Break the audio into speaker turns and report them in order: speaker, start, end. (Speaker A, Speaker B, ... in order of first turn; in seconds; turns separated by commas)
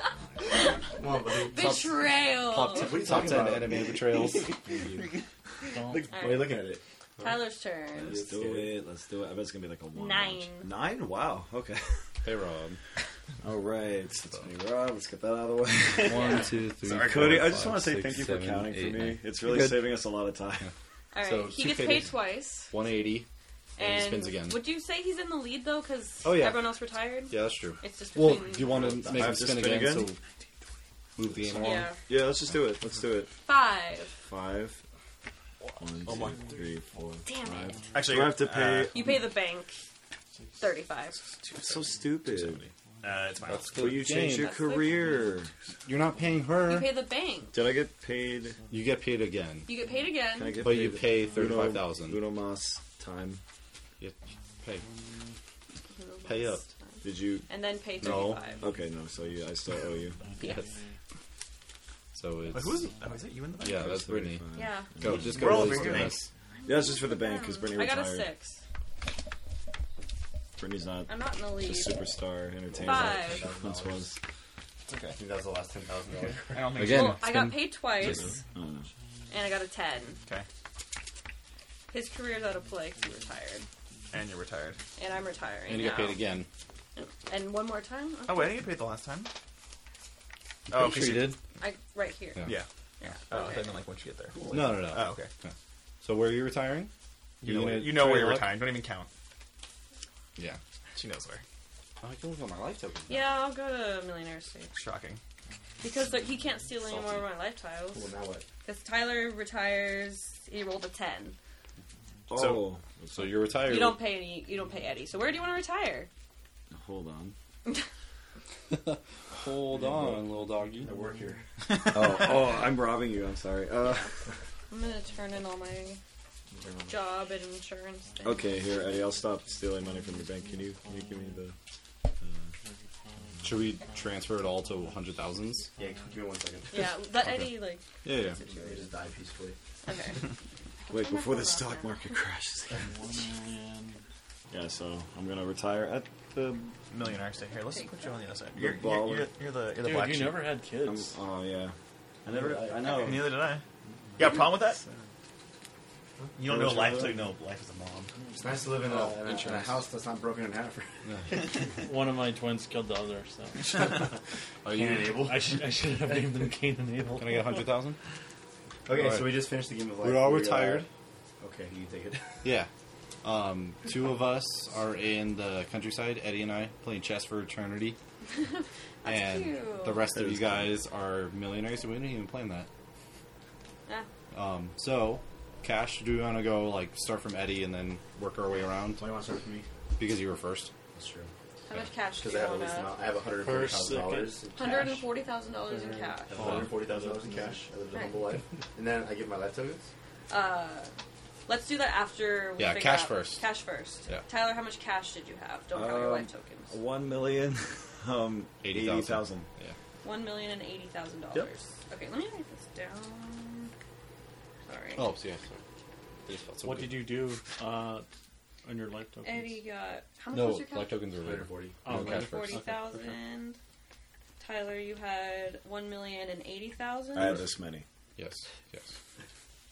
Speaker A: 0.3-0.8, Speaker B: 0.6-2.0, Speaker C: 1.3-3.0, Speaker D: 1.6-4.5, Speaker B: 2.6-4.1, Speaker A: 4.7-5.1, Speaker E: 5.7-6.1, Speaker B: 5.9-7.4, Speaker C: 6.1-6.6, Speaker C: 7.2-8.2, Speaker B: 8.0-8.8, Speaker A: 8.0-11.9, Speaker C: 9.9-10.7, Speaker D: 12.2-12.8, Speaker A: 13.4-16.2, Speaker F: 15.9-17.7, Speaker D: 16.0-20.0, Speaker C: 16.1-16.5, Speaker A: 16.9-20.7, Speaker C: 21.1-22.7, Speaker D: 21.2-22.2, Speaker D: 22.7-24.7, Speaker C: 23.8-29.0, Speaker D: 26.2-30.2, Speaker A: 28.7-30.1, Speaker D: 31.1-31.9, Speaker A: 31.4-33.3, Speaker C: 31.6-32.0, Speaker C: 33.4-34.1, Speaker A: 34.2-34.8, Speaker A: 35.8-39.1, Speaker F: 36.0-36.5, Speaker E: 36.3-36.6, Speaker C: 37.2-37.9, Speaker F: 37.9-39.0, Speaker C: 38.9-39.8, Speaker C: 40.6-41.2, Speaker F: 41.1-44.1, Speaker A: 41.6-42.7, Speaker D: 43.5-44.6, Speaker A: 43.7-45.5, Speaker C: 44.1-45.1, Speaker D: 45.8-47.0, Speaker C: 46.6-47.5, Speaker A: 47.5-48.6, Speaker D: 48.7-49.7, Speaker C: 49.6-50.7, Speaker A: 50.2-53.4, Speaker D: 50.6-52.2, Speaker D: 54.0-54.8, Speaker C: 55.9-58.6, Speaker D: 56.2-56.6, Speaker A: 57.0-57.5, Speaker D: 58.0-58.6, Speaker A: 58.6-60.2, Speaker E: 60.1-61.0, Speaker D: 60.4-60.7, Speaker D: 62.1-62.9, Speaker F: 62.5-64.0, Speaker D: 63.6-66.3, Speaker A: 63.6-66.1, Speaker C: 64.5-64.9, Speaker F: 65.0-66.2, Speaker C: 66.6-68.6, Speaker A: 66.7-68.3, Speaker A: 70.6-74.2, Speaker C: 71.1-72.0, Speaker B: 72.7-74.1, Speaker C: 72.8-73.4, Speaker F: 74.9-75.2, Speaker B: 75.2-76.7, Speaker F: 76.5-77.3, Speaker D: 76.7-78.3, Speaker C: 76.9-78.3, Speaker A: 78.1-78.9, Speaker C: 79.3-80.2, Speaker C: 81.9-83.7, Speaker F: 84.1-84.8, Speaker C: 85.0-86.2, Speaker D: 85.7-86.5, Speaker C: 87.0-88.6, Speaker F: 88.2-89.3, Speaker F: 90.7-91.4, Speaker D: 90.7-91.4, Speaker C: 91.6-92.4, Speaker C: 93.0-93.8, Speaker F: 93.3-95.3, Speaker B: 94.4-94.7, Speaker D: 94.5-96.9, Speaker F: 97.4-99.1, Speaker D: 97.4-98.6, Speaker F: 100.9-101.4, Speaker D: 102.0-103.3, Speaker C: 103.1-104.7, Speaker F: 104.7-105.2, Speaker C: 105.8-108.1, Speaker B: 107.9-108.5, Speaker C: 108.6-111.3, Speaker A: 112.3-113.6, Speaker F: 112.3-112.7, Speaker D: 113.1-114.0, Speaker C: 113.6-116.1, Speaker A: 116.7-117.3, Speaker D: 118.7-120.9, Speaker B: 120.8-121.5, Speaker A: 121.8-124.1, Speaker F: 121.9-122.3, Speaker C: 123.8-124.1, Speaker C: 124.7-126.0, Speaker B: 126.5-126.9, Speaker C: 126.9-128.5, Speaker A: 128.2-131.5, Speaker E: 130.8-131.4, Speaker A: 132.2-132.5, Speaker E: 132.6-134.0, Speaker D: 133.4-135.7, Speaker B: 135.8-136.9, Speaker C: 136.7-138.9, Speaker D: 138.0-138.4, Speaker B: 138.4-139.6, Speaker C: 139.8-140.3, Speaker C: 140.8-142.2, Speaker A: 140.9-143.2, Speaker E: 142.8-144.0, Speaker A: 144.5-146.8, Speaker F: 146.9-150.5, Speaker C: 147.7-148.1, Speaker A: 148.5-149.3, Speaker E: 149.7-151.2, Speaker A: 150.8-153.5, Speaker B: 152.3-152.8, Speaker F: 152.8-153.6, Speaker F: 154.2-154.8, Speaker A: 154.2-155.1, Speaker F: 156.4-158.1, Speaker A: 156.4-157.3, Speaker B: 158.3-161.4, Speaker D: 158.8-159.8, Speaker E: 161.7-164.0, Speaker B: 163.7-164.1, Speaker D: 164.6-165.1, Speaker B: 164.7-165.5, Speaker E: 165.0-167.6, Speaker D: 167.2-168.0, Speaker B: 168.8-170.9, Speaker D: 168.9-169.4, Speaker D: 170.0-170.9, Speaker B: 171.4-172.4, Speaker D: 172.4-172.7, Speaker D: 173.2-178.0, Speaker C: 178.4-180.1, Speaker D: 179.0-182.7, Speaker A: 180.1-180.7, Speaker D: 184.3-189.0, Speaker B: 189.0-189.7, Speaker D: 190.0-190.7, Speaker B: 190.9-191.3, Speaker C: 191.7-192.9, Speaker B: 192.2-195.1, Speaker E: 193.3-194.9, Speaker C: 194.5-196.3, Speaker E: 195.6-197.7, Speaker B: 196.2-199.9, Speaker D: 196.4-196.7, Speaker C: 200.3-200.9, Speaker C: 201.5-206.7, Speaker D: 202.6-203.5, Speaker A: 205.7-209.4, Speaker D: 208.6-209.8, Speaker C: 210.0-213.7, Speaker C: 214.7-215.0, Speaker D: 214.9-215.6, Speaker D: 216.2-217.4, Speaker E: 216.6-218.1, Speaker E: 218.6-219.6, Speaker C: 219.2-221.0, Speaker D: 220.3-222.6, Speaker B: 221.2-221.8, Speaker E: 221.8-223.2, Speaker C: 221.9-223.6, Speaker C: 224.4-227.4, Speaker A: 227.1-227.8, Speaker D: 228.2-228.9